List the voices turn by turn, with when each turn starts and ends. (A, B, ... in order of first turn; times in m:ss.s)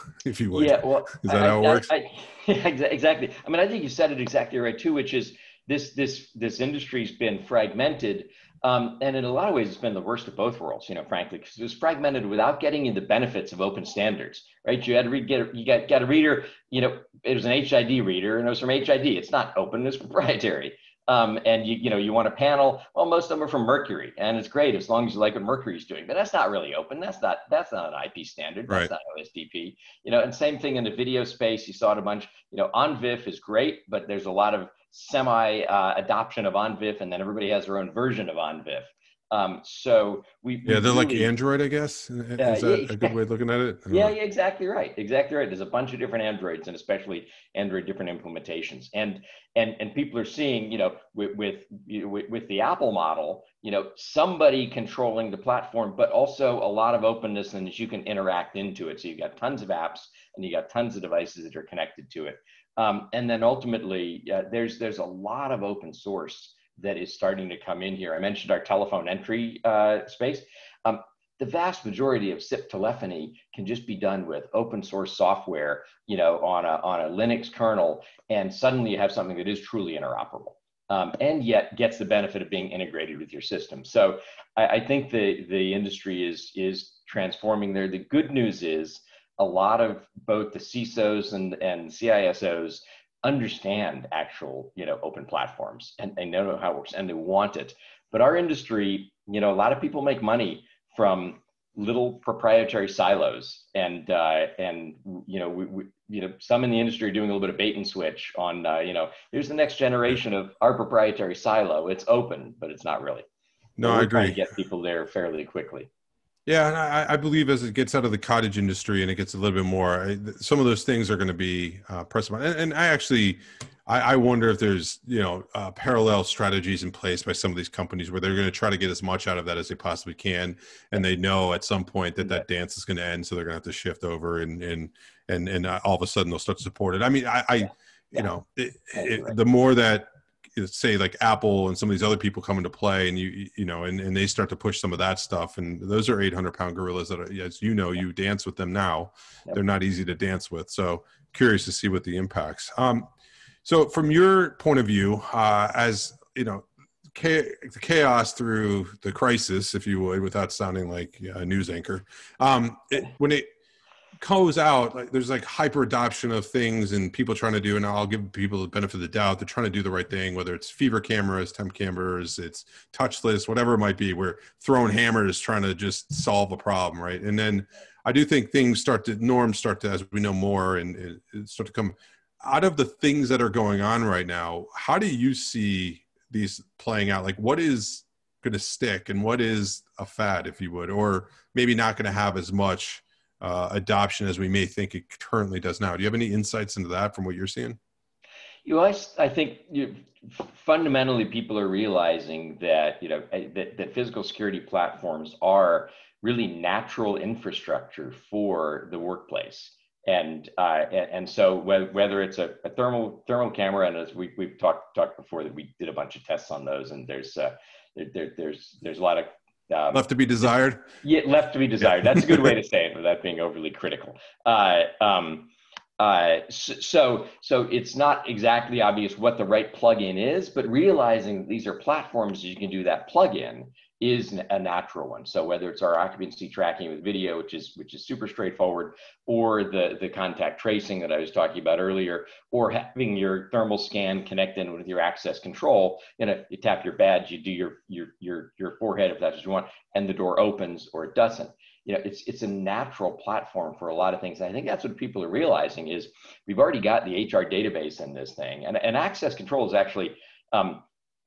0:00.2-0:01.9 A
0:00.5-0:41.3 B
0:40.6-0:44.1 A
0:42.4-0:43.1 B
0:43.9-1:53.3 B
1:53.8-1:54.4 A
1:53.8-1:55.9 B
1:56.4-2:33.1 A
2:12.2-2:12.4 B
2:18.9-2:19.4 B
2:33.6-2:43.5 A
2:44.2-3:17.8 A
3:18.6-3:40.1 B
3:39.9-3:40.8 A
3:41.0-4:20.8 B
3:42.2-3:42.5 A